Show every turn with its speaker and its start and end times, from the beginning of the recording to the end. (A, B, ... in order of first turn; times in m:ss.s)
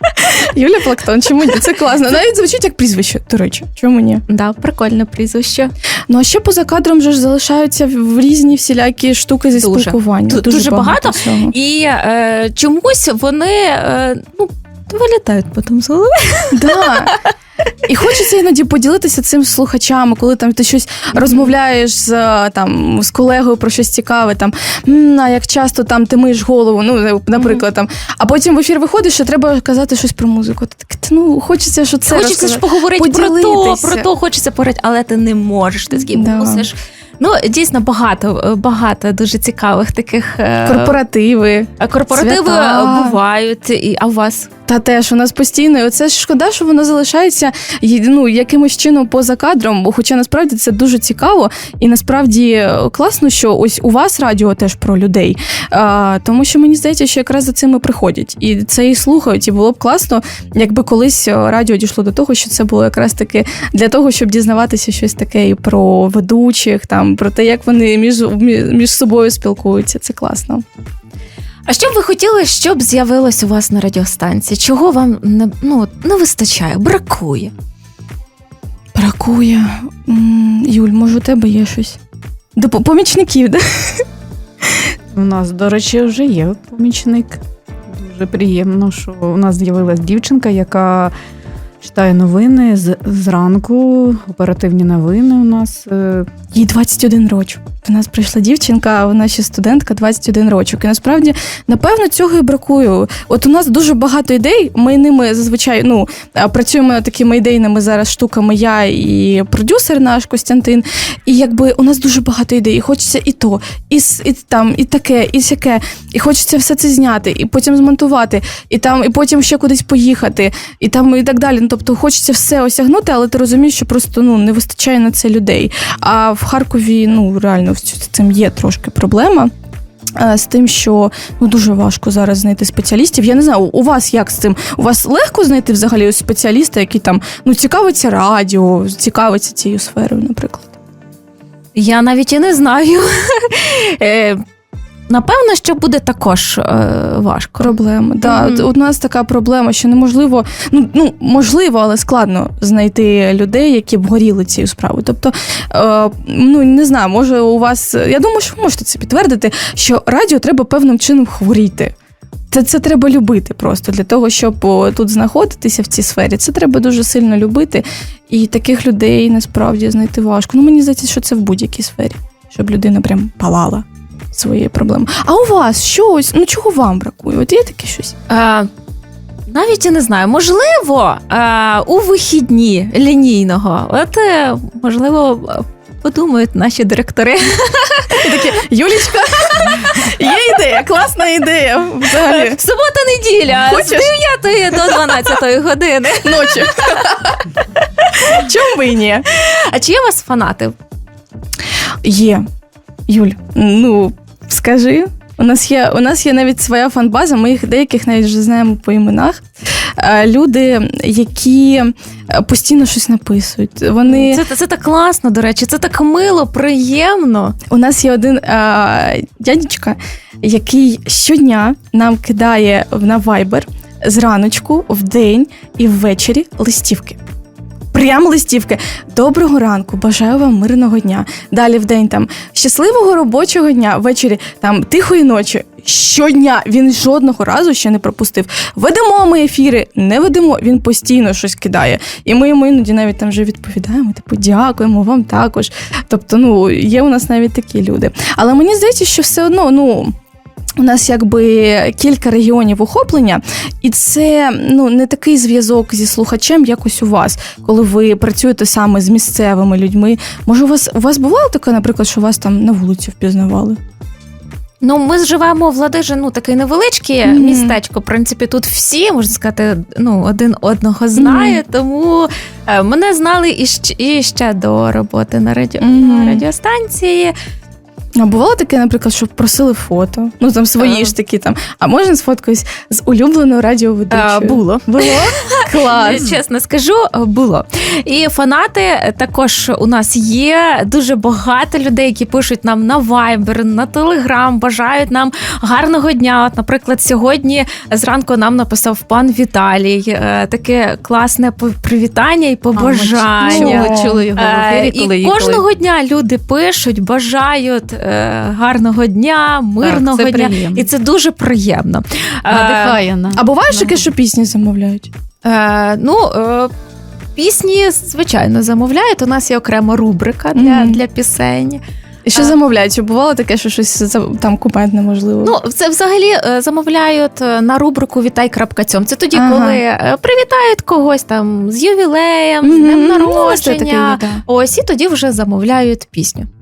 0:00.2-0:04.2 A
0:04.3-0:05.7 B
0:06.1-0:11.5 A
0:09.6-0:17.2 B
0:16.5-0:17.1 A
0:17.9-0:34.1 A
0:21.2-0:21.5 B
0:27.4-0:27.6 B
0:32.0-0:41.0 B
0:36.1-0:36.7 A
0:40.6-0:43.2 A
0:41.8-0:44.5 B
0:44.7-1:10.6 A
1:11.7-1:17.5 B
1:18.9-1:22.0 A
1:22.6-1:24.0 A
1:25.1-1:31.1 C
1:31.8-1:36.3 C
1:36.5-2:09.5 A
2:10.2-2:20.7 A
2:21.7-2:24.4 B
2:25.1-2:28.7 B
2:27.6-2:41.9 A
2:42.5-2:58.1 A
2:58.3-2:58.7 B
2:59.5-3:08.2 B
3:08.2-3:12.6 A
3:09.5-3:10.0 B
3:12.2-3:16.6 B
3:13.6-3:14.1 A
3:14.8-3:15.2 A
3:16.2-3:17.5 A
3:18.0-3:18.4 B
3:18.2-3:19.2 A
3:19.3-3:20.7 B
3:22.0-3:22.4 A
3:23.1-3:29.4 A
3:30.0-3:34.4 A
3:34.0-3:37.5 B
3:37.7-3:47.2 A
3:47.9-4:10.1 A
4:10.8-4:23.8 A
4:24.8-4:37.3 B
4:27.2-4:27.8 A
4:31.2-4:31.6 A
4:35.8-4:36.4 A
4:38.2-4:46.3 A
4:40.8-4:41.1 B
4:44.1-5:13.0 B
5:02.7-5:05.6 C
5:03.5-5:04.2 A
5:09.8-5:10.9 C
5:12.5-5:14.0 C
5:13.3-5:15.1 A
5:15.4-5:16.7 B
5:17.4-5:21.8 B
5:20.5-5:21.0 A
5:22.2-5:25.5 A
5:25.4-5:36.5 B
5:29.3-5:29.8 A
5:32.6-5:34.4 A